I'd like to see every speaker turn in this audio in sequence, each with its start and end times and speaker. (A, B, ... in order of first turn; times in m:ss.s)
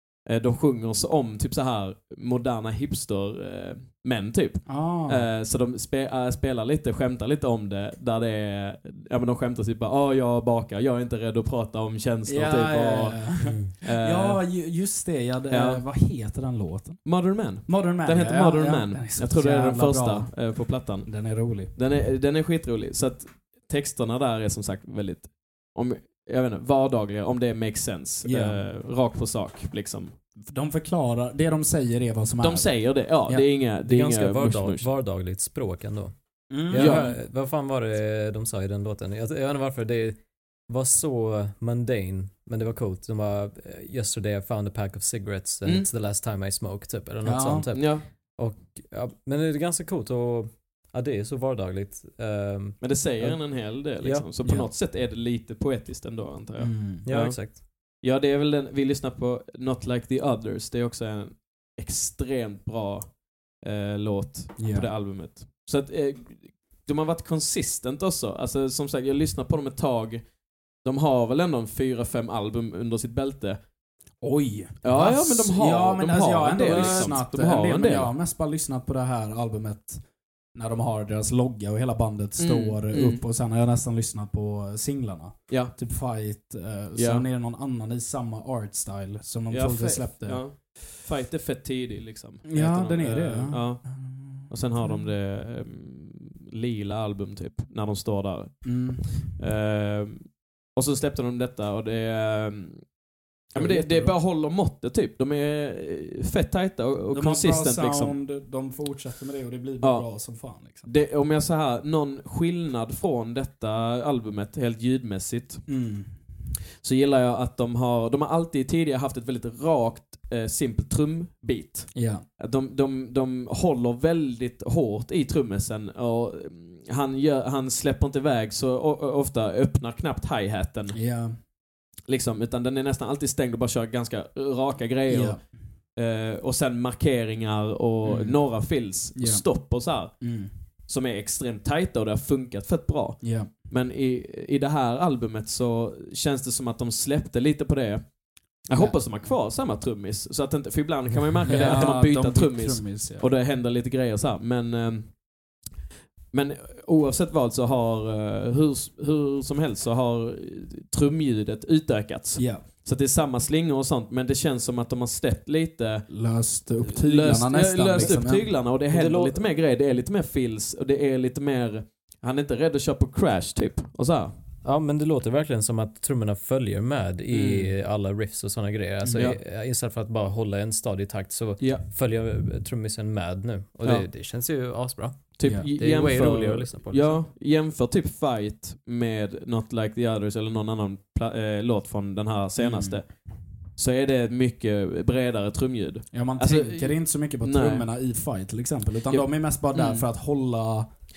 0:00.2-0:14.4 A
0:04.7-0:05.3 B
0:12.2-0:17.1 B
0:13.4-0:13.7 C
0:15.5-0:15.8 A
0:17.0-0:30.1 A
0:17.6-0:20.5 B
0:21.0-0:21.7 B
0:28.2-0:28.6 B
0:30.4-0:33.5 B
0:32.4-0:34.9 A
0:33.8-0:54.2 C
0:36.5-0:37.2 B
0:36.7-0:37.0 A
0:47.2-0:47.7 B
0:47.7-0:48.0 A
0:52.8-1:10.2 A
0:54.4-0:54.7 B
0:56.6-0:57.1 B
0:57.0-0:57.6 C
1:04.6-1:04.9 B
1:10.8-1:13.6 A
1:14.2-1:30.4 B
1:14.8-1:18.1 A
1:16.7-1:17.1 C
1:22.4-1:23.2 A
1:25.5-1:25.7 A
1:26.9-1:27.2 A
1:29.5-1:42.9 A
1:32.4-1:35.1 B
1:38.6-1:39.4 B
1:43.5-1:48.2 A
1:43.5-1:44.1 B
1:47.1-1:50.9 B
1:49.8-1:50.1 A
1:50.8-1:55.6 A
1:55.7-1:56.1 B
1:56.8-2:11.0 A
2:01.9-2:02.2 B
2:10.9-2:11.4 B
2:12.1-2:15.4 A
2:15.1-2:15.4 B
2:16.0-2:20.2 A
2:18.0-2:18.4 B
2:19.1-2:19.5 B
2:20.1-2:20.5 B
2:20.8-2:28.1 A
2:23.2-2:23.5 B
2:28.6-2:35.2 A
2:31.5-2:33.3 B
2:36.3-2:46.1 A
2:42.4-2:42.6 B
2:46.1-2:48.5 B
2:46.8-2:54.4 A
2:48.9-2:49.4 C
2:54.6-3:07.2 C
2:57.3-2:57.7 A
2:59.0-2:59.3 B
2:59.1-2:59.4 A
3:01.6-3:01.8 A
3:05.4-3:13.2 A
3:05.4-3:05.7 B
3:12.6-3:13.0 B
3:13.7-3:17.8 A
3:16.1-3:20.9 B
3:19.1-3:20.0 A